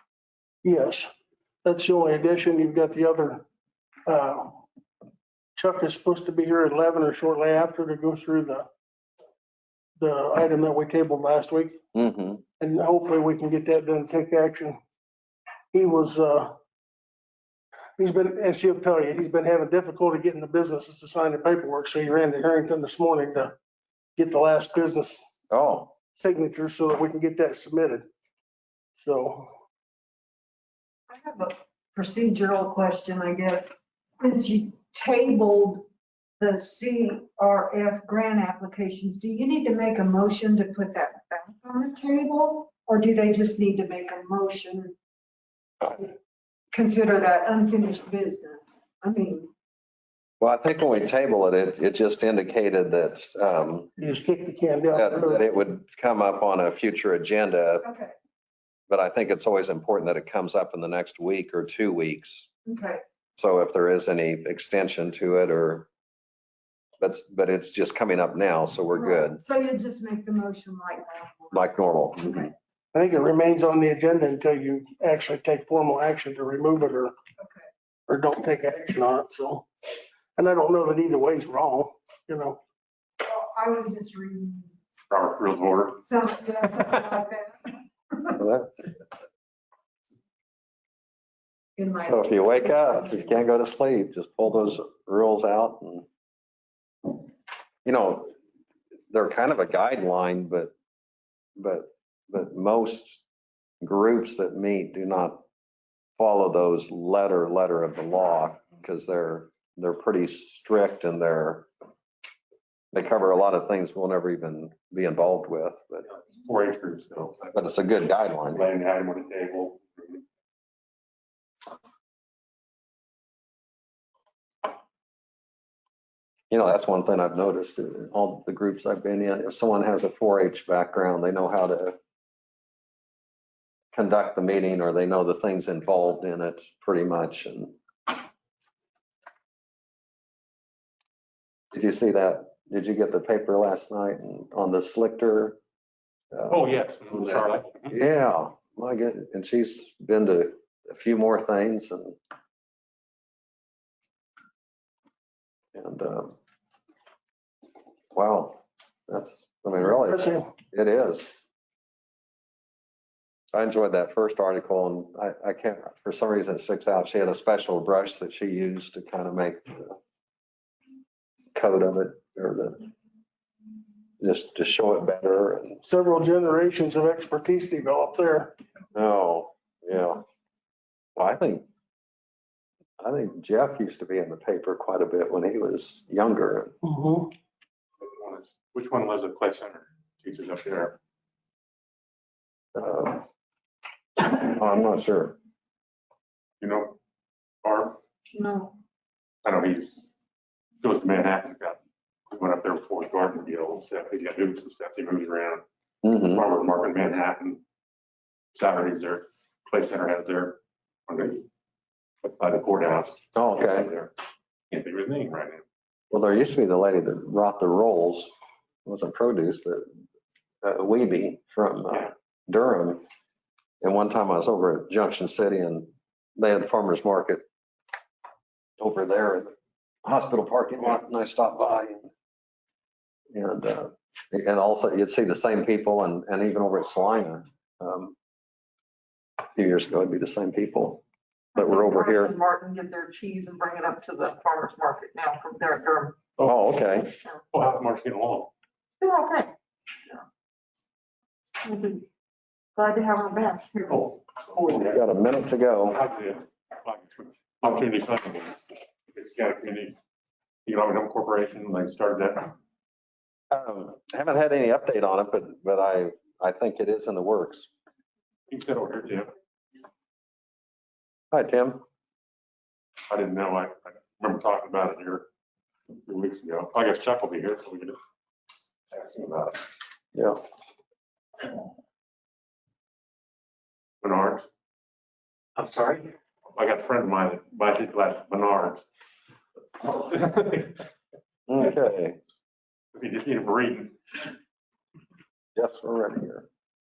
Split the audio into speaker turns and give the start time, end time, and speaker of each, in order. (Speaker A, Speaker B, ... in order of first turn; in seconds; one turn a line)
Speaker A: 0.6-1.1
Speaker A: 1.6-3.4
Speaker A: 4.0-4.6
Speaker A: 5.5-8.7
Speaker A: 10.0-11.8
Speaker B: 11.9-12.4
Speaker A: 12.6-14.8
Speaker A: 15.7-16.5
Speaker A: 18.0-23.5
Speaker A: 24.2-25.3
Speaker B: 25.5-25.9
Speaker A: 26.1-28.1
Speaker A: 29.0-29.5
Speaker C: 31.1-35.9
Speaker C: 36.4-44.9
Speaker C: 45.8-46.1
Speaker C: 46.7-49.5
Speaker B: 50.4-53.9
Speaker A: 54.0-55.4
Speaker B: 54.9-57.9
Speaker C: 57.8-58.1
Speaker B: 58.9-62.5
Speaker C: 62.6-63.0
Speaker B: 63.3-65.9
Speaker B: 67.0-69.4
Speaker C: 68.9-71.7
Speaker B: 71.5-72.5
Speaker C: 72.2-72.5
Speaker A: 72.9-77.1
Speaker C: 77.4-77.7
Speaker A: 78.1-79.7
Speaker A: 80.3-82.6
Speaker C: 83.2-84.7
Speaker D: 85.1-86.0
Speaker C: 86.0-88.4
Speaker B: 88.4-89.0
Speaker C: 91.8-93.3
Speaker B: 92.0-96.0
Speaker B: 97.8-98.3
Speaker B: 99.1-100.7
Speaker B: 101.6-103.2
Speaker B: 103.8-105.4
Speaker B: 106.2-111.7
Speaker B: 112.9-116.0
Speaker D: 116.4-117.5
Speaker B: 117.5-118.6
Speaker D: 118.5-120.2
Speaker B: 126.5-132.0
Speaker B: 133.9-137.7
Speaker B: 141.7-145.6
Speaker B: 146.3-152.2
Speaker D: 146.5-148.0
Speaker B: 155.7-156.3
Speaker B: 158.1-161.4
Speaker A: 160.1-160.4
Speaker B: 163.5-170.0
Speaker B: 171.5-172.9
Speaker B: 174.2-175.8
Speaker A: 175.8-178.6
Speaker B: 178.9-180.2
Speaker B: 181.2-181.7
Speaker B: 183.0-186.7
Speaker A: 186.8-187.3
Speaker D: 188.0-191.0
Speaker B: 192.7-193.2
Speaker B: 194.2-195.3
Speaker D: 196.6-196.9
Speaker D: 197.6-198.0
Speaker C: 198.3-198.7
Speaker D: 199.4-200.0
Speaker D: 200.8-201.8
Speaker D: 202.3-205.6
Speaker B: 206.0-206.4
Speaker D: 206.3-207.6
Speaker D: 208.5-211.5
Speaker D: 212.2-214.1
Speaker B: 213.3-213.9
Speaker D: 214.7-215.6
Speaker B: 216.1-218.3
Speaker B: 218.8-219.9
Speaker B: 220.6-223.0
Speaker B: 223.8-227.4
Speaker B: 228.8-232.1
Speaker B: 233.3-238.1
Speaker B: 239.5-241.0
Speaker B: 241.6-242.3
Speaker E: 241.6-246.3
Speaker B: 246.4-247.1
Speaker D: 247.5-248.5
Speaker E: 249.0-249.5
Speaker E: 251.6-252.0
Speaker E: 252.8-254.2
Speaker D: 254.1-255.0
Speaker B: 254.7-256.0
Speaker D: 255.9-260.0
Speaker D: 260.6-262.6
Speaker B: 263.5-267.7
Speaker D: 268.5-269.3
Speaker B: 271.3-271.8
Speaker D: 273.1-275.2
Speaker D: 276.1-278.0
Speaker D: 278.9-279.7
Speaker B: 280.1-280.4
Speaker D: 284.0-284.5
Speaker D: 285.6-288.8
Speaker D: 289.8-290.8
Speaker B: 291.5-292.2
Speaker D: 292.9-294.3
Speaker B: 295.6-296.4